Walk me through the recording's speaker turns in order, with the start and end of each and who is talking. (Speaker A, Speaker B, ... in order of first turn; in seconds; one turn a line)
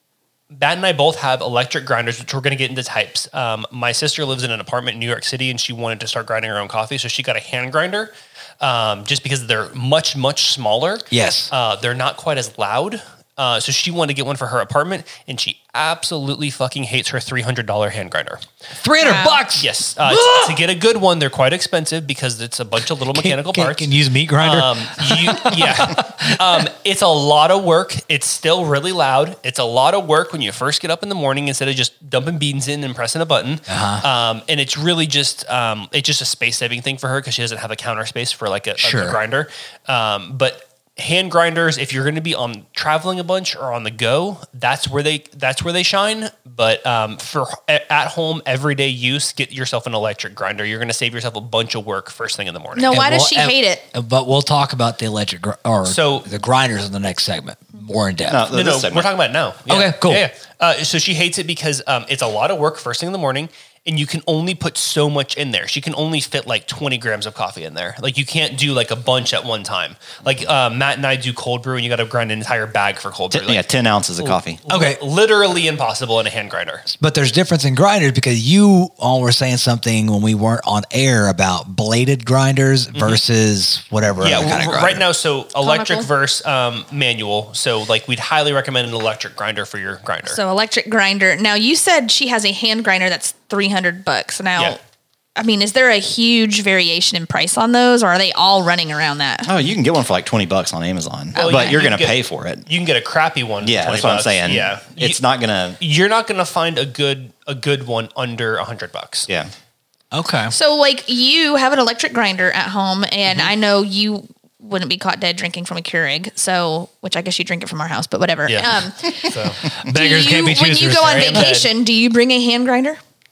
Speaker A: 0.5-18.4
Speaker B: 11.1-11.5
Speaker B: 18.8-20.6
Speaker C: 19.0-19.4
Speaker A: 19.6-53.0
Speaker B: 23.1-26.4
Speaker B: 33.7-34.0
Speaker B: 38.8-39.2
Speaker C: 52.7-53.8
Speaker B: 52.9-58.4
Speaker A: 55.9-56.3
Speaker D: 58.3-59.1
Speaker A: 58.5-73.6
Speaker B: 59.7-60.2
Speaker D: 73.3-74.6
Speaker A: 74.2-76.8
Speaker B: 74.7-75.0
Speaker B: 76.9-85.0
Speaker A: 82.9-83.2
Speaker A: 84.2-90.4
Speaker C: 85.6-86.1
Speaker C: 90.2-94.8
Speaker C: 95.3-99.5
Speaker D: 99.4-102.7
Speaker C: 101.3-101.9
Speaker A: 101.3-105.2
Speaker D: 103.6-105.8
Speaker A: 105.8-109.3
Speaker B: 110.1-110.5
Speaker C: 110.5-123.0
Speaker A: 118.5-119.6
Speaker B: 119.7-121.5
Speaker A: 121.0-121.7